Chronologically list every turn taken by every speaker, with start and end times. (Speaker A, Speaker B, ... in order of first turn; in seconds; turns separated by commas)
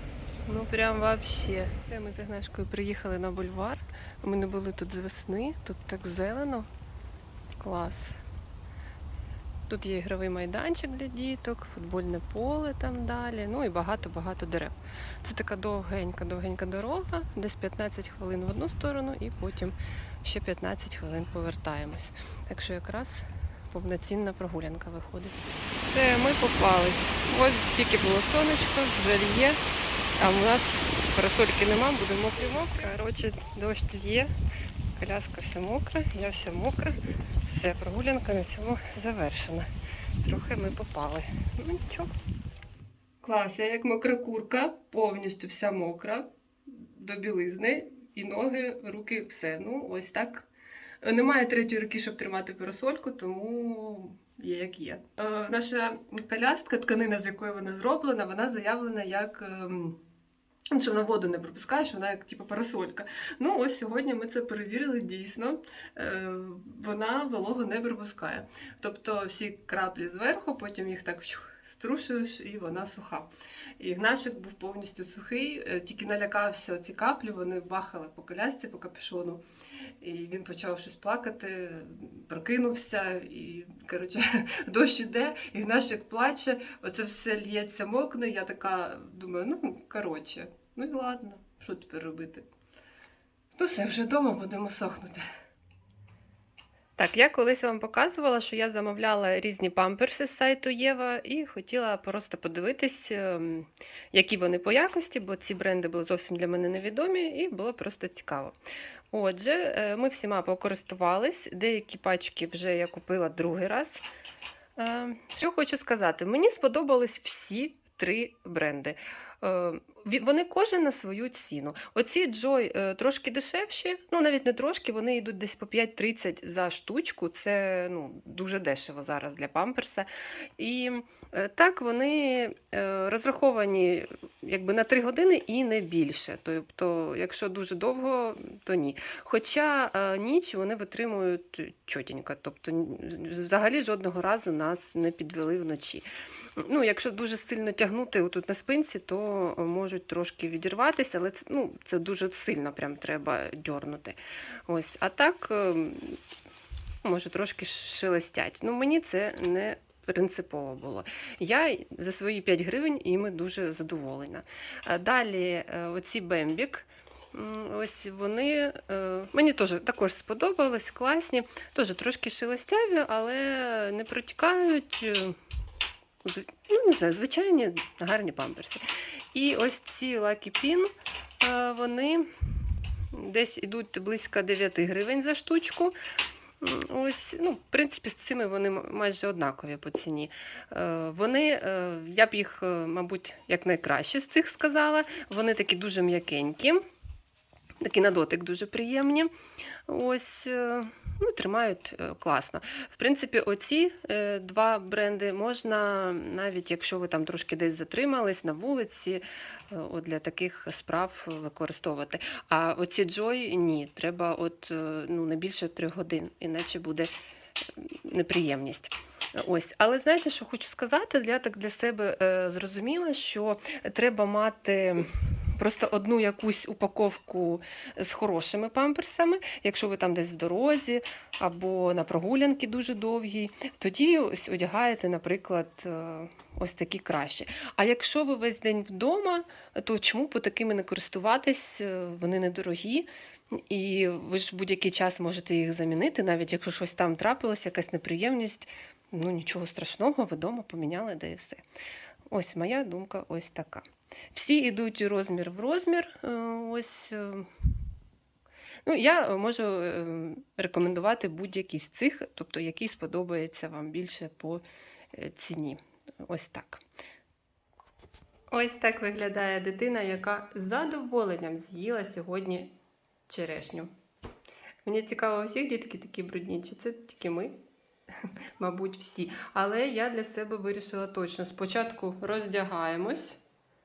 Speaker A: 0.5-6.7, Speaker A: 7.6-8.2, Speaker A: 9.7-25.4, Speaker A: 25.9-29.6, Speaker A: 30.2-34.3, Speaker A: 35.0-39.7, Speaker A: 40.2-42.1, Speaker A: 43.2-50.5, Speaker A: 51.0-60.0, Speaker A: 60.7-79.4, Speaker A: 80.0-92.5, Speaker A: 93.5-95.2, Speaker A: 97.0-108.6, Speaker A: 109.1-114.0, Speaker A: 114.8-146.1, Speaker A: 146.6-156.2, Speaker A: 157.0-175.4, Speaker A: 176.2-182.3, Speaker A: 183.1-185.9, Speaker A: 186.6-196.8, Speaker A: 197.8-199.3, Speaker A: 199.9-217.1, Speaker A: 217.7-251.6, Speaker A: 252.3-257.5, Speaker A: 258.8-266.8, Speaker A: 268.5-272.7, Speaker A: 273.3-273.9, Speaker A: 274.8-277.6, Speaker A: 278.2-283.4